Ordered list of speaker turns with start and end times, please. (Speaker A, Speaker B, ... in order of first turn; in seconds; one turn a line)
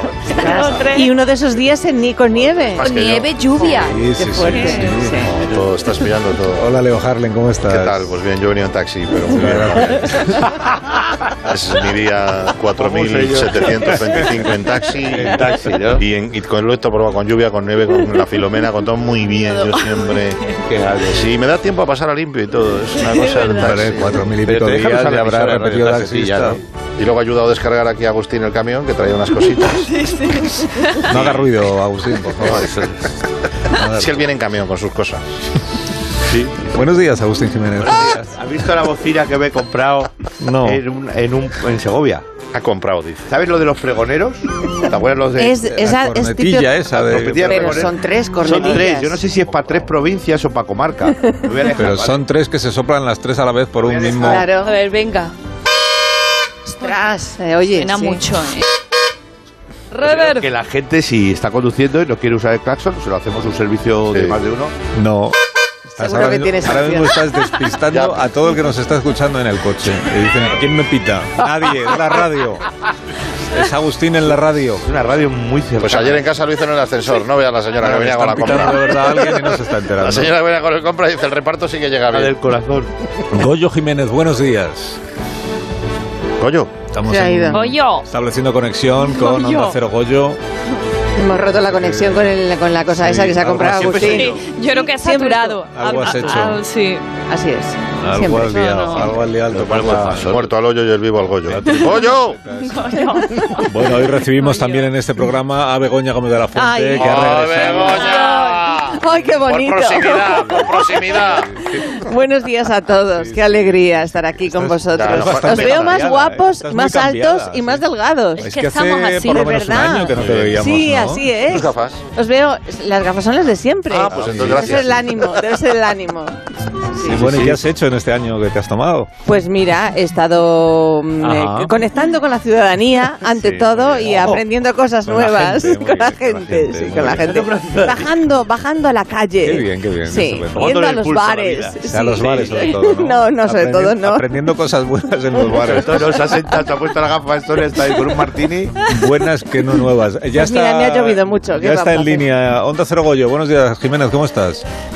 Speaker A: 0.4-1.1
Speaker B: 0.5-2.9
Speaker C: 2.7-3.9
Speaker A: 2.8-4.9
Speaker D: 3.7-5.5
Speaker B: 4.0-5.3
Speaker C: 5.4-6.7
Speaker D: 6.6-8.2
Speaker C: 7.7-9.9
Speaker D: 9.3-10.4
Speaker C: 11.5-15.4
Speaker E: 12.8-14.2
Speaker E: 15.2-16.0
Speaker C: 16.0-20.4
Speaker E: 20.6-21.4
Speaker C: 21.1-24.2
Speaker A: 23.0-23.7
Speaker D: 23.6-26.6
Speaker E: 23.7-26.6
Speaker C: 27.0-30.0
Speaker A: 30.1-30.5
Speaker D: 31.1-32.7
Speaker E: 32.5-33.1
Speaker D: 33.7-34.2
Speaker C: 33.9-35.2
Speaker E: 36.3-36.6
Speaker D: 36.7-38.2
Speaker E: 37.8-40.1
Speaker D: 40.4-40.8
Speaker E: 40.6-42.3
Speaker C: 42.5-43.3
Speaker E: 43.3-45.6
Speaker B: 45.4-46.9
Speaker D: 45.6-47.9
Speaker E: 46.9-52.2
Speaker B: 47.4-49.4
Speaker D: 51.8-54.5
Speaker E: 53.8-54.4
Speaker B: 54.2-54.7
Speaker A: 54.5-55.3
Speaker B: 56.7-58.2
Speaker A: 57.7-58.6
Speaker A: 59.9-60.5
Speaker E: 60.0-64.7
Speaker C: 64.1-64.4
Speaker D: 64.9-65.4
Speaker D: 66.0-72.7
Speaker B: 66.0-67.2
Speaker C: 67.9-68.2
Speaker D: 73.5-74.9
Speaker E: 74.8-76.3
Speaker C: 75.8-79.2
Speaker D: 77.8-80.3
Speaker C: 80.0-82.3
Speaker E: 82.1-82.9
Speaker D: 83.3-85.0
Speaker C: 86.4-86.8
Speaker D: 86.8-90.4
Speaker B: 87.0-87.6
Speaker A: 87.5-88.1
Speaker A: 89.1-89.8
Speaker B: 91.2-96.5
Speaker D: 91.3-92.3
Speaker D: 92.9-94.4
Speaker E: 93.7-94.4
Speaker A: 94.1-97.0
Speaker D: 95.7-96.6
Speaker B: 97.3-98.5
Speaker D: 98.0-100.4
Speaker A: 98.4-99.3
Speaker E: 99.3-100.5
Speaker C: 100.1-102.4
Speaker D: 101.5-102.8
Speaker A: 102.6-104.9
Speaker B: 103.0-103.3
Speaker D: 103.6-107.9
Speaker B: 106.5-111.2
Speaker C: 107.0-111.5
Speaker A: 107.7-108.5
Speaker D: 111.6-112.0
Speaker B: 111.8-118.5
Speaker D: 112.9-117.8
Speaker C: 114.9-116.0
Speaker D: 118.4-121.3
Speaker A: 118.4-119.5
Speaker B: 119.2-126.4
Speaker C: 120.2-120.6
Speaker C: 121.5-122.0
Speaker C: 124.0-125.0
Speaker D: 124.1-125.0
Speaker E: 124.1-124.5
Speaker B: 127.0-127.2
Speaker E: 127.0-127.6
Speaker D: 127.1-129.1
Speaker B: 129.2-144.3
Speaker E: 131.2-131.7
Speaker E: 133.3-134.4
Speaker D: 133.7-134.4
Speaker D: 135.1-137.4
Speaker E: 137.2-138.1
Speaker D: 139.4-140.7
Speaker E: 140.5-142.6
Speaker D: 141.9-146.3
Speaker E: 145.5-148.8
Speaker D: 148.8-154.7
Speaker B: 150.4-152.3